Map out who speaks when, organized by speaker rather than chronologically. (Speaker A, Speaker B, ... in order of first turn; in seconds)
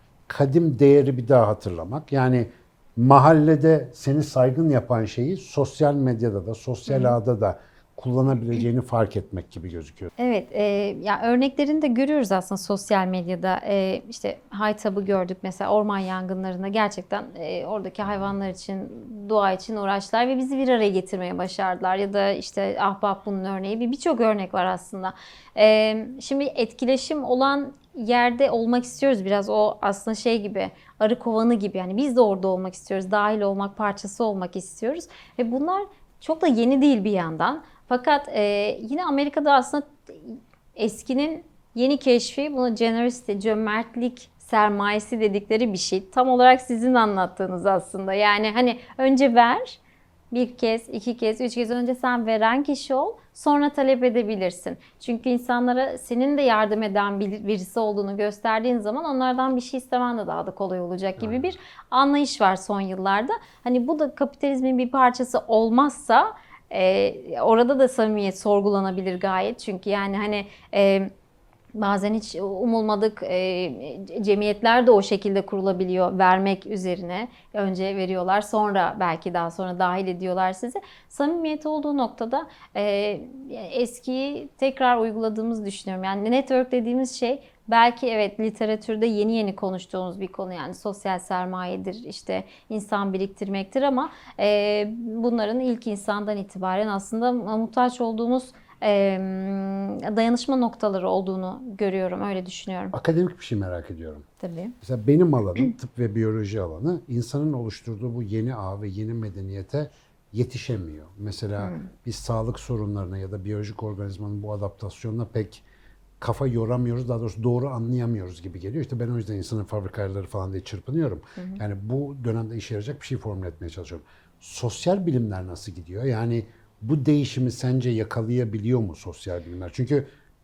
Speaker A: 0.3-10.1, 61.2-61.5, 102.9-104.3, 104.8-115.6, 116.2-130.1
Speaker B: 6.9-7.2, 10.2-49.8, 50.3-71.1, 71.8-102.9, 104.4-104.7, 111.6-111.9